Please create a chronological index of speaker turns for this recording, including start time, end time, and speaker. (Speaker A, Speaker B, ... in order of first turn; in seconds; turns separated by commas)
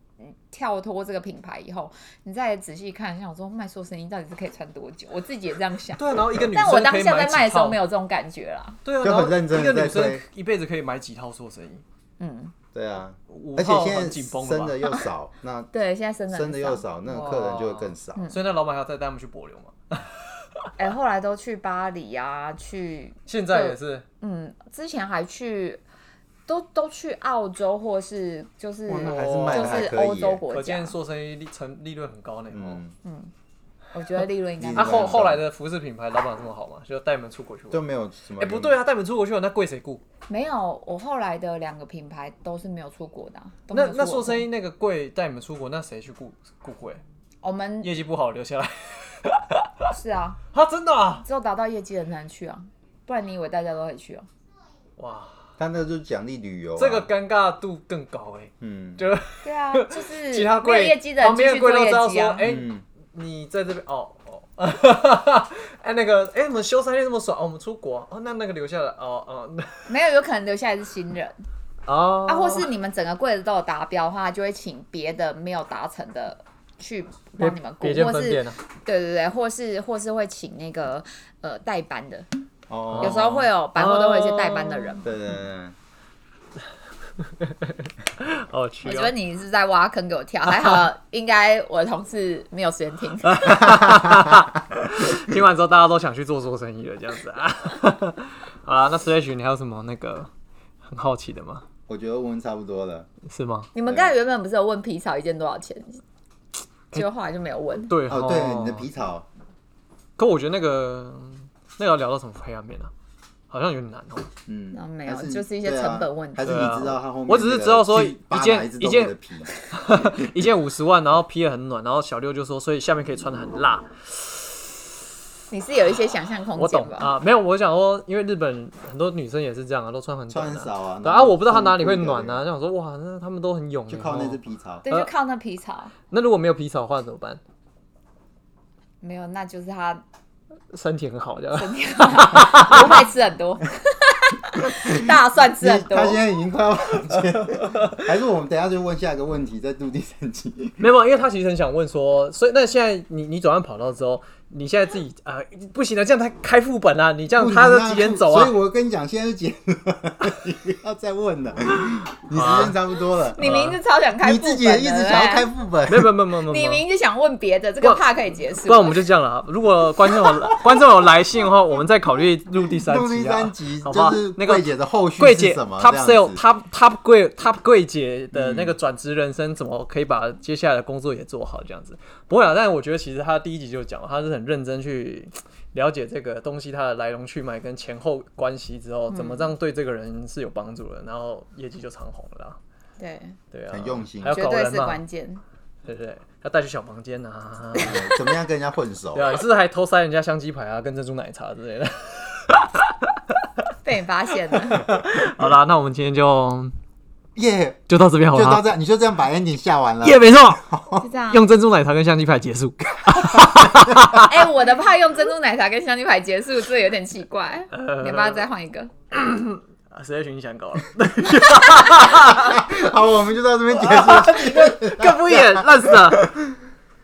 Speaker A: 0.2-8.8, Speaker B: 6.0-7.8, Speaker B: 8.8-11.8, Speaker C: 9.0-10.2, Speaker A: 12.2-12.5, Speaker C: 12.7-15.7, Speaker B: 13.3-14.8, Speaker A: 15.7-16.8, Speaker C: 16.3-18.3, Speaker B: 17.1-20.7, Speaker A: 20.8-25.8, Speaker B: 23.3-24.1, Speaker A: 26.5-30.9, Speaker C: 28.9-30.4, Speaker B: 29.3-29.9, Speaker B: 30.5-32.8, Speaker C: 32.5-33.0, Speaker A: 33.0-33.3, Speaker A: 33.9-35.2, Speaker C: 34.6-35.4, Speaker B: 34.8-37.9, Speaker C: 37.7-38.8, Speaker B: 38.4-40.0, Speaker A: 40.3-44.5, Speaker B: 43.7-47.0, Speaker A: 47.4-47.9, Speaker B: 47.8-49.9, Speaker A: 49.9-50.4, Speaker B: 50.5-51.2, Speaker A: 51.2-54.3, Speaker B: 55.0-55.5, Speaker C: 55.6-57.1, Speaker B: 56.8-70.0, Speaker C: 58.6-59.0, Speaker A: 59.4-62.4, Speaker C: 62.4-62.8, Speaker A: 69.9-71.4, Speaker B: 71.9-72.7, Speaker A: 72.3-82.3, Speaker B: 77.4-78.6, Speaker C: 82.7-83.4, Speaker B: 82.9-85.1, Speaker A: 83.0-85.1, Speaker C: 85.0-85.8, Speaker B: 87.2-89.1, Speaker A: 88.8-93.8, Speaker B: 93.2-100.3, Speaker B: 100.8-101.7, Speaker C: 101.9-103.1, Speaker B: 103.3-103.7, Speaker A: 103.7-106.0, Speaker C: 103.9-104.1, Speaker A: 106.9-107.9, Speaker B: 107.9-108.9, Speaker C: 108.1-109.3, Speaker B: 110.2-112.9, Speaker B: 113.5-114.3, Speaker C: 114.5-119.5, Speaker A: 114.7-116.7, Speaker B: 116.4-119.2, Speaker B: 119.7-124.9, Speaker A: 125.5-127.1, Speaker B: 126.6-135.1, Speaker C: 130.3-132.4, Speaker C: 133.9-134.8, Speaker A: 134.9-135.9, Speaker B: 136.1-137.4, Speaker A: 139.0-140.0, Speaker B: 140.7-143.0, Speaker A: 141.5-146.2, Speaker C: 144.6-150.8, Speaker B: 147.2-148.0, Speaker B: 150.8-158.6, Speaker C: 157.4-163.6, Speaker B: 162.3-162.8, Speaker A: 163.3-165.5, Speaker B: 163.4-163.8, Speaker C: 164.2-166.1, Speaker B: 165.9-166.8, Speaker A: 166.4-169.0, Speaker B: 167.8-192.6, Speaker C: 172.8-176.4, Speaker C: 178.3-178.8, Speaker A: 189.1-189.5, Speaker A: 193.0-193.4, Speaker B: 193.5-195.0, Speaker C: 193.7-194.4, Speaker A: 194.2-195.4, Speaker B: 195.8-198.3, Speaker C: 197.8-199.3, Speaker B: 199.1-203.4, Speaker A: 203.8-204.9, Speaker B: 204.7-206.8, Speaker C: 207.3-211.1, Speaker B: 207.9-208.7, Speaker B: 210.0-210.7, Speaker A: 211.0-211.4, Speaker B: 211.3-214.3, Speaker A: 214.2-218.9, Speaker B: 217.7-218.4, Speaker B: 219.1-222.7, Speaker C: 222.2-226.5, Speaker B: 223.8-226.3